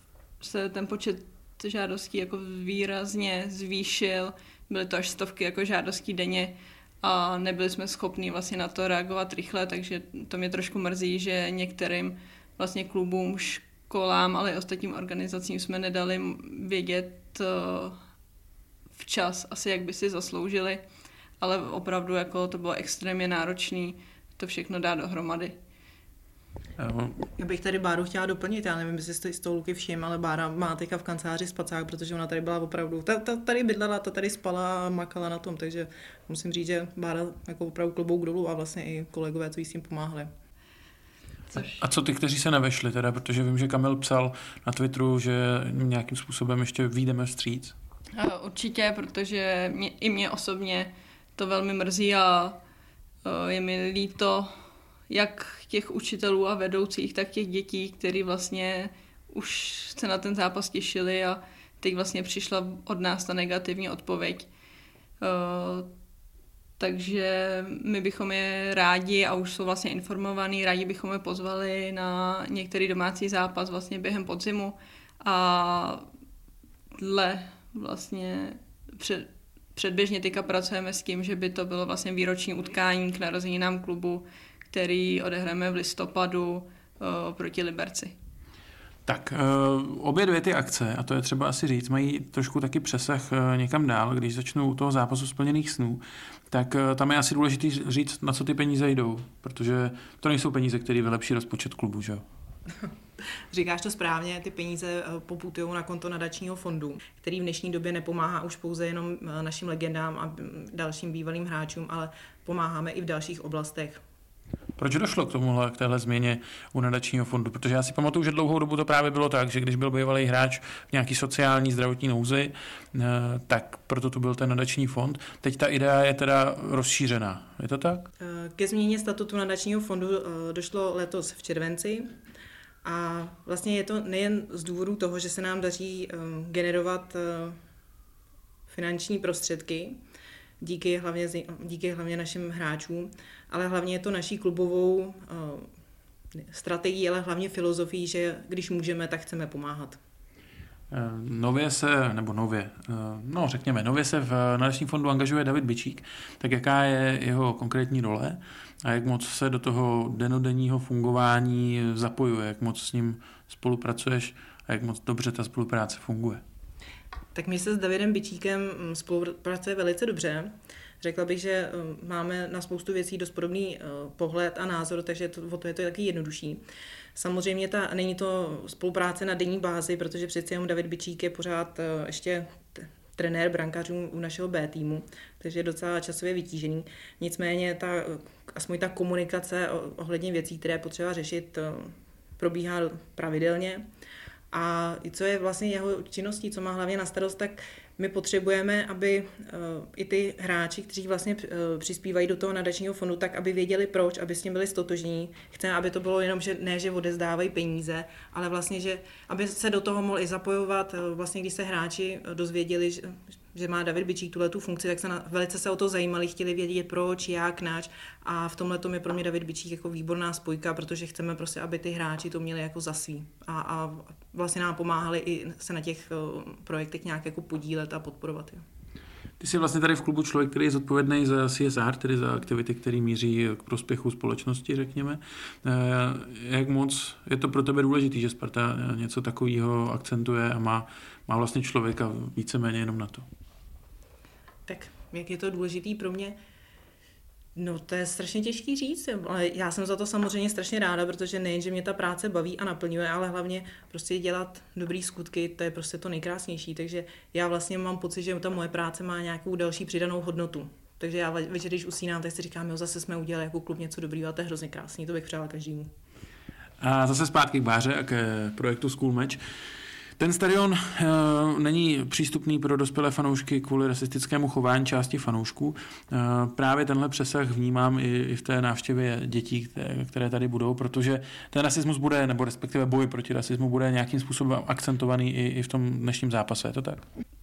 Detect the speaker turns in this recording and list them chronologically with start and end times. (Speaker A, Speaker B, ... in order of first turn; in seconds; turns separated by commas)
Speaker A: 0.4-18.0, Speaker A: 19.0-20.8, Speaker A: 21.4-25.6, Speaker B: 26.8-27.3, Speaker C: 27.4-40.3, Speaker B: 41.5-47.8, Speaker A: 48.1-52.6, Speaker A: 53.2-54.5, Speaker A: 55.1-64.5, Speaker A: 65.2-65.9, Speaker A: 66.8-76.1, Speaker A: 77.0-88.2, Speaker B: 89.1-102.2, Speaker C: 103.5-114.0, Speaker B: 114.8-128.1, Speaker C: 128.2-132.1, Speaker C: 132.8-137.6, Speaker C: 138.7-140.0, Speaker C: 140.6-145.7, Speaker C: 146.4-150.0, Speaker B: 150.9-166.4, Speaker C: 167.3-176.6, Speaker C: 177.2-193.9, Speaker C: 194.5-228.6, Speaker B: 229.4-243.2, Speaker C: 244.7-246.4, Speaker C: 247.6-265.9, Speaker B: 266.8-269.4, Speaker B: 270.2-287.0